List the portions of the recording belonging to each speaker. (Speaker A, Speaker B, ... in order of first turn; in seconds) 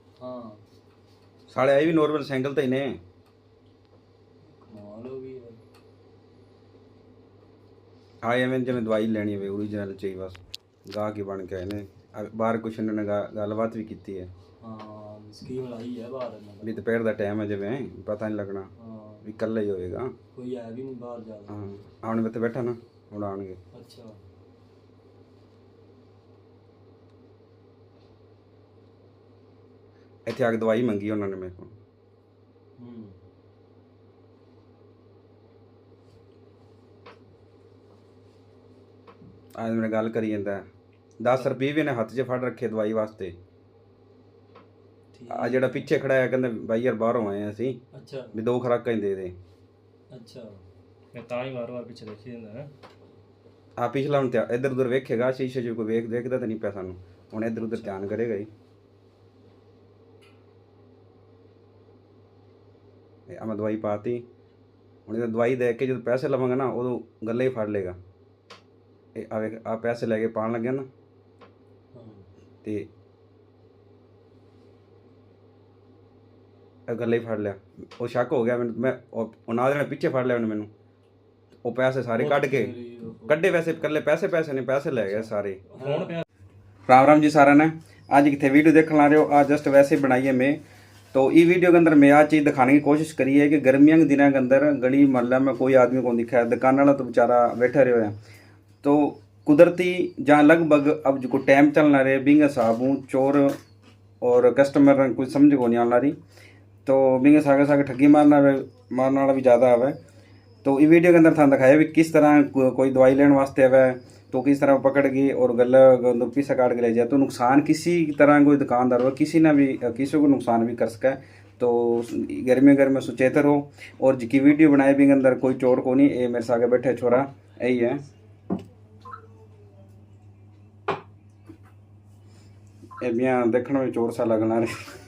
Speaker A: 0.2-0.6, 4.6-5.6, 14.6-16.8, 18.8-19.2, 20.3-21.7, 23.7-24.2, 32.8-33.1, 45.1-46.0, 47.9-48.4, 50.1-50.6, 71.9-72.3, 82.2-84.0, 85.0-86.2
Speaker B: 1.5-3.0, 8.2-14.3, 16.6-18.7, 19.2-20.1, 21.5-23.6, 30.3-31.7, 39.6-40.7, 41.2-43.4, 45.3-47.8, 48.3-49.3, 53.8-58.5, 63.3-64.2, 65.1-68.0, 69.2-70.9, 76.9-80.7, 81.7-82.7, 83.3-85.6, 86.9-90.6, 91.1-98.1, 98.8-103.5, 104.2-106.2, 106.8-110.0, 110.6-128.0, 133.0-134.7
Speaker C: 51.1-52.7, 85.8-86.2